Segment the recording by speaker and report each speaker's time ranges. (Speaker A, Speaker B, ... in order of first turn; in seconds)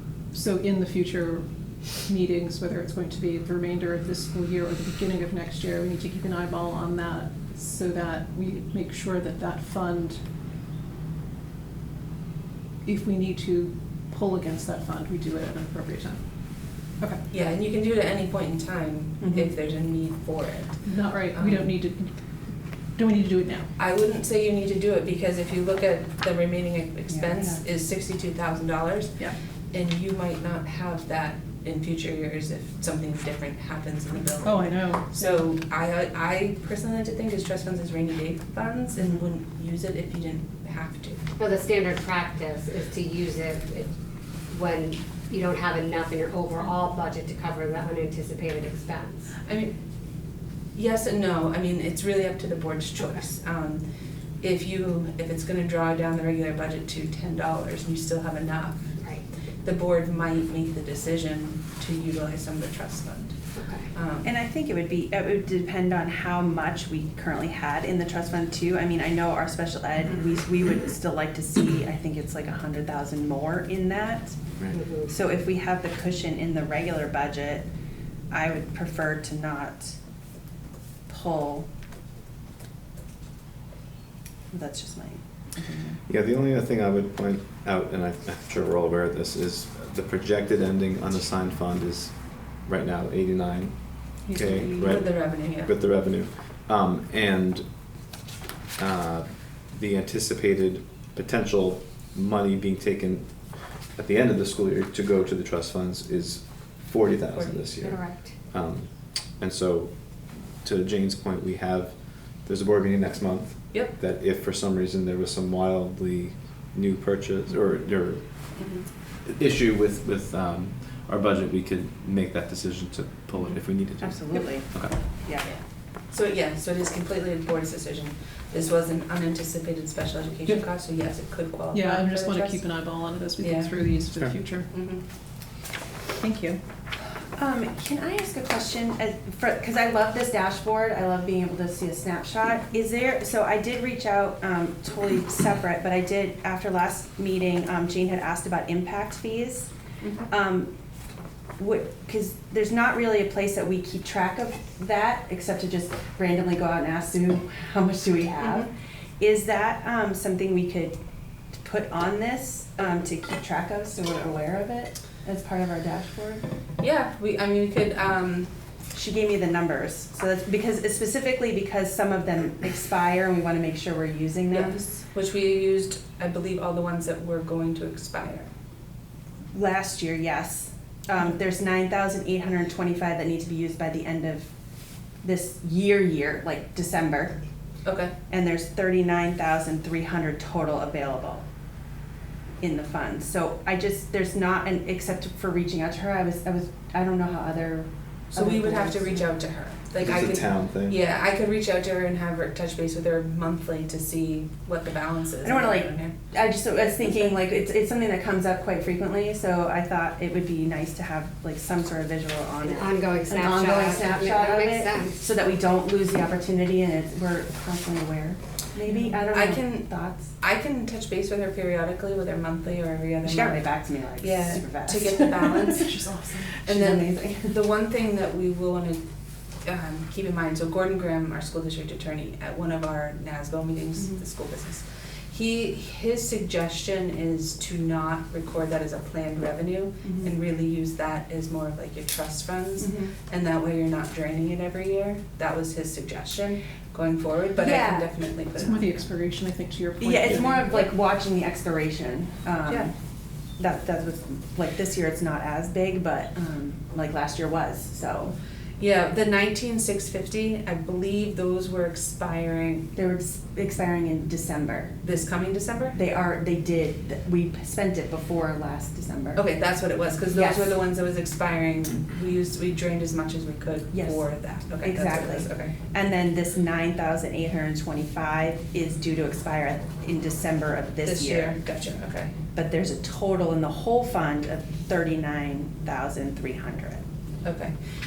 Speaker A: 0.3-10.2, 12.8-16.2, 20.8-22.1, 22.9-23.7, 34.4-35.4, 131.7-134.7, 136.2-136.6, 218.8-219.2, 225.5-226.6, 248.6-250.8
Speaker B: 17.3-20.8, 21.3-21.7, 23.8-29.2, 29.7-41.2, 49.4-49.8, 50.7-53.8, 54.4-59.0, 59.6-63.4, 63.9-64.3, 94.3-95.7, 107.3-107.6, 118.5-118.9, 126.1-132.6, 133.4-133.7, 134.7-135.0, 150.0-150.3, 158.4-158.7, 166.8-168.5, 174.5-178.5, 187.8-188.1, 198.3-206.2, 207.0-207.4, 219.3-223.6, 224.2-225.9, 226.6-229.0, 229.6-249.1, 250.2-250.9, 252.7-252.9, 258.8-262.9, 265.0-266.0, 269.4-275.8, 281.0-282.3, 287.4-287.7
Speaker C: 19.2-19.5, 27.1-27.6, 64.2-74.4, 75.1-77.7, 78.3-80.0, 81.1-81.7, 84.5-86.0, 124.0-124.7, 125.2-125.5, 137.3-149.7, 150.3-150.7, 151.6-161.0, 161.6-166.4, 168.9-175.0, 179.5-184.5, 185.2-187.3, 188.3-191.4, 192.6-199.3, 205.4-220.3, 223.2-225.7, 226.7-227.6, 240.0-240.3, 242.8-243.1, 247.6-248.1, 250.0-252.9, 253.6-258.3, 262.9-264.9, 265.9-269.4, 270.3-270.8, 273.9-281.6, 282.5-287.0
Speaker D: 41.4-43.9, 44.5-49.3, 63.5-63.9, 74.7-75.1, 107.8-108.3, 212.6-215.2
Speaker E: 86.1-97.7, 98.8-103.3, 104.0-109.9, 110.6-118.2, 119.2-124.9, 134.1-134.4, 200.0-201.0